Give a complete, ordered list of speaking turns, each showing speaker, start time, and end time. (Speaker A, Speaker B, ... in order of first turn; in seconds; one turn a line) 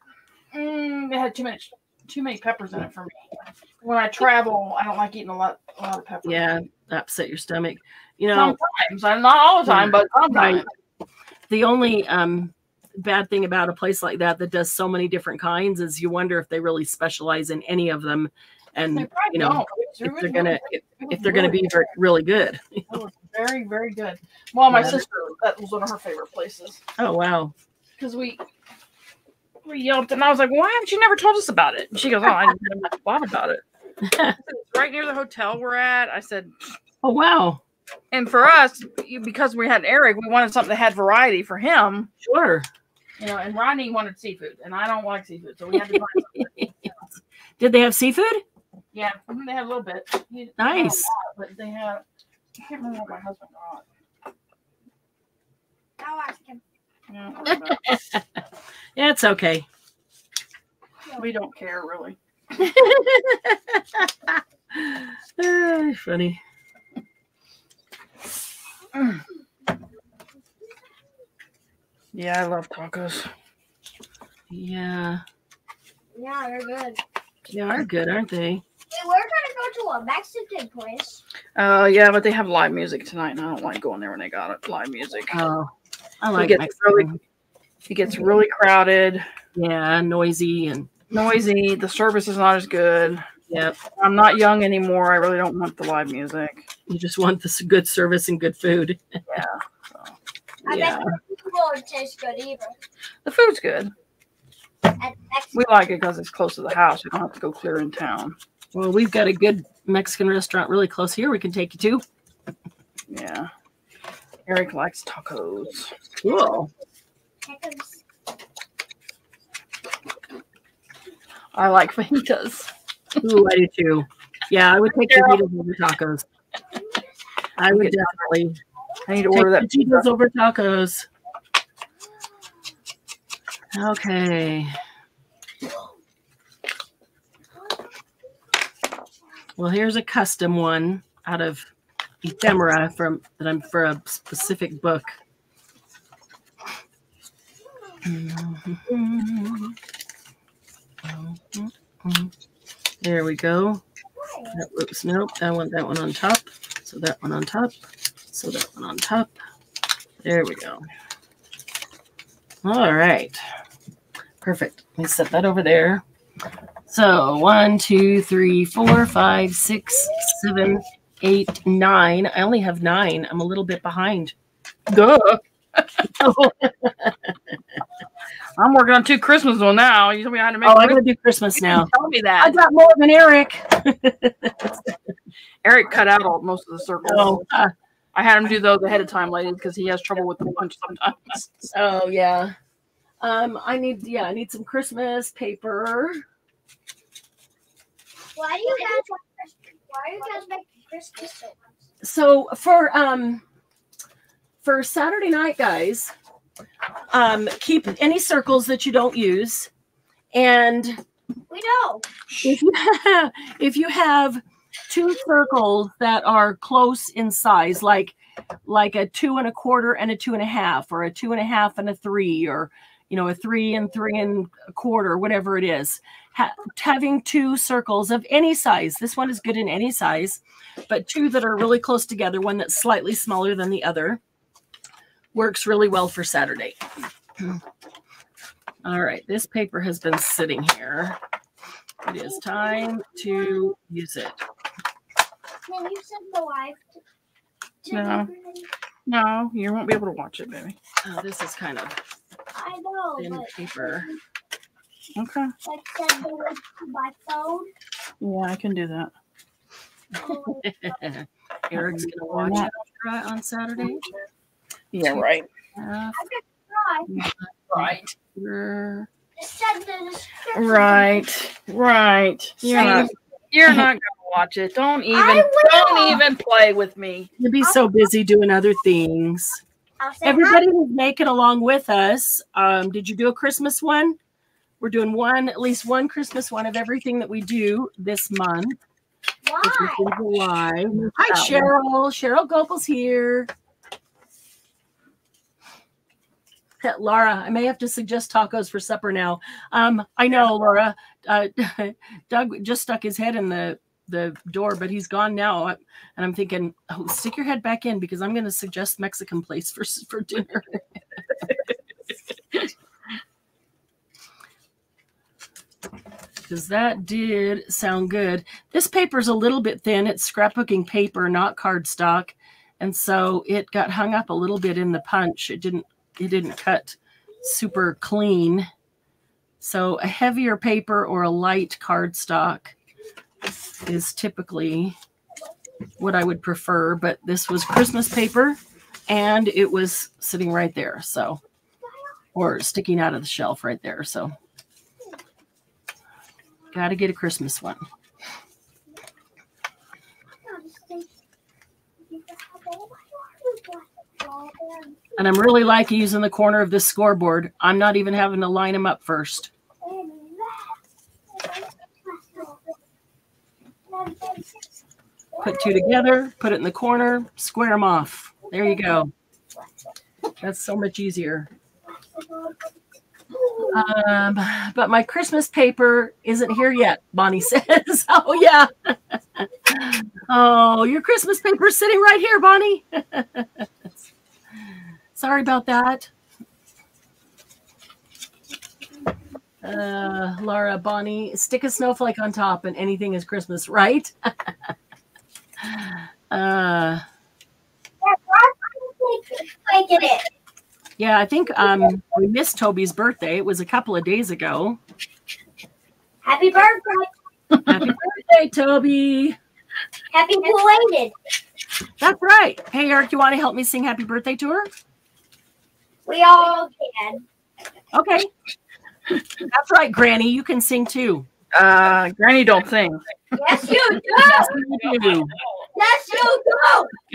Speaker A: 0.5-6.5
Speaker B: 6.2-8.6
Speaker A: 8.3-10.7
Speaker B: 9.7-10.7
Speaker B: 11.5-22.9
Speaker A: 18.9-21.9
Speaker A: 22.9-26.8
Speaker B: 24.7-25.0
Speaker B: 27.0-27.5
Speaker A: 28.0-28.4
Speaker A: 29.6-33.6
Speaker B: 34.0-34.4
Speaker A: 34.3-36.7
Speaker B: 37.0-37.6
Speaker A: 38.1-42.1
Speaker B: 42.2-42.7
Speaker A: 43.2-46.5
Speaker B: 45.7-46.9
Speaker B: 47.6-48.4
Speaker A: 48.9-52.0
Speaker B: 50.6-51.1
Speaker A: 52.6-53.9
Speaker C: 56.0-56.6
Speaker A: 57.1-57.8
Speaker B: 57.5-58.4
Speaker B: 59.0-59.7
Speaker A: 61.2-62.2
Speaker B: 62.6-66.4
Speaker A: 72.1-73.3
Speaker B: 74.5-75.2
Speaker C: 76.2-77.0
Speaker B: 77.5-78.6
Speaker C: 78.9-81.2
Speaker A: 81.6-85.4
Speaker B: 85.3-87.2
Speaker A: 86.3-87.1
Speaker A: 87.9-89.3
Speaker B: 89.5-90.9
Speaker A: 91.1-93.3
Speaker B: 93.5-93.8
Speaker A: 94.0-96.7
Speaker B: 96.9-99.2
Speaker A: 99.3-100.2
Speaker C: 100.7-102.8
Speaker B: 100.7-101.1
Speaker A: 103.2-103.9
Speaker C: 105.0-105.5
Speaker A: 105.5-108.4
Speaker B: 108.7-112.0
Speaker A: 113.1-113.5
Speaker A: 114.5-115.9
Speaker B: 116.2-116.7
Speaker C: 117.4-118.0
Speaker A: 121.5-122.7
Speaker B: 123.2-126.2
Speaker A: 125.1-125.4
Speaker B: 127.6-128.6
Speaker A: 127.6-128.2
Speaker A: 129.1-130.1
Speaker B: 129.3-131.1
Speaker B: 133.7-134.8
Speaker B: 139.6-141.7
Speaker B: 142.2-145.2
Speaker B: 148.1-149.8
Speaker B: 151.0-152.3
Speaker B: 153.0-153.8
Speaker C: 154.2-154.6
Speaker B: 154.5-157.8
Speaker B: 158.3-159.3
Speaker B: 160.2-160.9
Speaker B: 162.6-163.4
Speaker B: 164.4-166.0
Speaker B: 166.9-174.3
Speaker A: 174.9-175.9
Speaker B: 176.0-177.3
Speaker A: 178.6-181.0
Speaker B: 180.6-185.0
Speaker A: 181.6-182.6
Speaker A: 185.6-187.4
Speaker B: 187.1-187.7
Speaker A: 188.1-191.7
Speaker B: 191.7-192.6
Speaker B: 193.2-196.2
Speaker C: 198.4-201.6
Speaker B: 202.0-203.4
Speaker B: 204.6-206.1
Speaker B: 207.1-209.7
Speaker B: 210.3-211.0
Speaker C: 211.5-212.1
Speaker A: 212.3-212.6
Speaker B: 212.4-234.2
Speaker B: 235.3-236.8
Speaker B: 238.8-241.2
Speaker B: 242.0-244.4
Speaker C: 242.2-243.7
Speaker C: 245.7-247.0
Speaker C: 247.8-248.7
Speaker A: 247.9-248.3
Speaker A: 249.1-250.8
Speaker B: 251.0-252.0
Speaker C: 252.5-254.2
Speaker B: 253.2-254.1
Speaker A: 255.2-255.5
Speaker C: 255.7-257.7
Speaker A: 258.2-259.1
Speaker B: 260.2-264.0
Speaker C: 260.2-260.7
Speaker A: 261.7-262.7
Speaker A: 264.9-265.5
Speaker B: 265.8-266.2
Speaker C: 266.1-267.1
Speaker B: 267.1-269.1
Speaker A: 267.7-268.0
Speaker C: 269.4-271.3
Speaker A: 270.5-277.3
Speaker B: 272.6-273.1
Speaker C: 272.7-273.1
Speaker C: 275.1-276.2
Speaker B: 277.4-279.6
Speaker C: 280.0-280.6
Speaker B: 280.2-284.2
Speaker B: 284.8-288.8
Speaker C: 289.4-290.1
Speaker B: 289.6-293.5
Speaker A: 291.0-291.7
Speaker B: 296.8-310.8
Speaker B: 316.4-328.7
Speaker B: 329.6-332.8
Speaker B: 333.8-335.0
Speaker B: 336.0-341.4
Speaker B: 342.4-344.3
Speaker B: 346.7-347.8
Speaker C: 350.4-351.1
Speaker C: 352.1-355.0
Speaker B: 355.2-359.5
Speaker C: 359.8-360.8
Speaker C: 361.3-362.6
Speaker C: 363.9-364.7
Speaker C: 365.4-365.9
Speaker B: 365.4-369.1
Speaker B: 370.4-371.5
Speaker C: 372.1-372.6
Speaker C: 373.3-373.9
Speaker B: 373.7-383.7
Speaker B: 385.1-386.1
Speaker B: 389.6-394.5
Speaker B: 395.6-397.0
Speaker C: 398.0-400.3
Speaker B: 401.0-404.8
Speaker C: 406.2-407.1
Speaker A: 407.5-407.8
Speaker B: 407.7-409.4
Speaker C: 410.1-411.1
Speaker B: 412.0-414.7
Speaker C: 416.1-417.2
Speaker B: 417.9-418.3
Speaker B: 419.5-421.3
Speaker A: 421.5-423.0
Speaker C: 423.3-424.5
Speaker A: 423.6-425.6
Speaker B: 424.1-425.3
Speaker C: 425.7-426.9